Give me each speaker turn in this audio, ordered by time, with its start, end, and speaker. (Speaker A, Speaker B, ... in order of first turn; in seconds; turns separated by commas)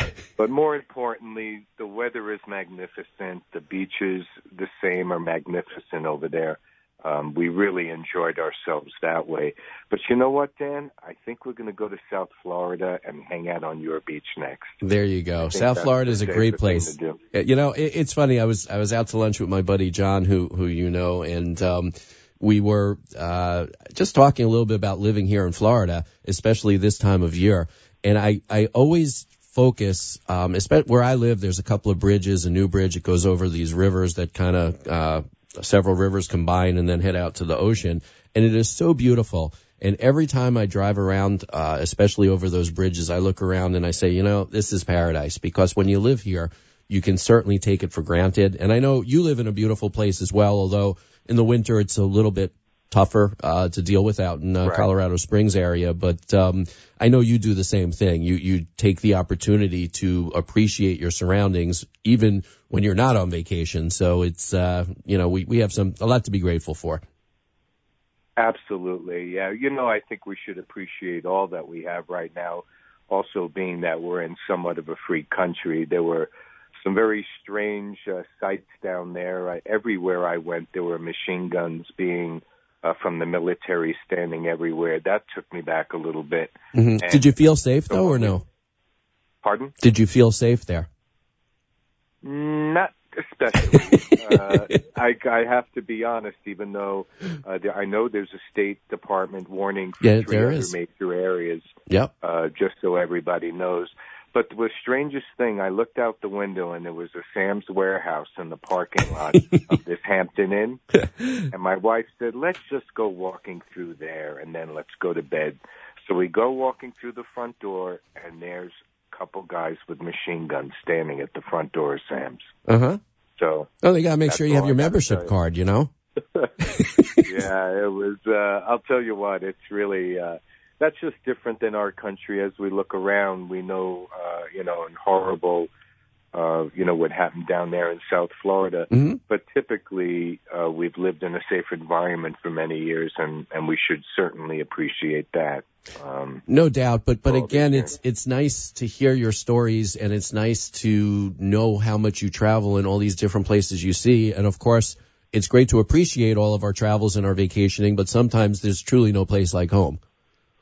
Speaker A: 0.4-14.8, Speaker B: 14.8-67.0, Speaker A: 15.4-17.2, Speaker A: 54.6-54.9, Speaker A: 68.4-87.3, Speaker B: 86.7-88.4, Speaker A: 87.9-88.4, Speaker A: 89.4-89.8, Speaker B: 89.8-90.9, Speaker A: 92.2-110.8, Speaker B: 100.0-100.7, Speaker A: 111.5-122.5, Speaker B: 122.7-123.0, Speaker A: 123.4-123.7, Speaker B: 123.8-125.9, Speaker A: 124.3-125.3, Speaker A: 127.2-135.7, Speaker A: 136.3-146.4, Speaker B: 138.9-139.2, Speaker B: 146.5-160.0, Speaker A: 147.3-147.9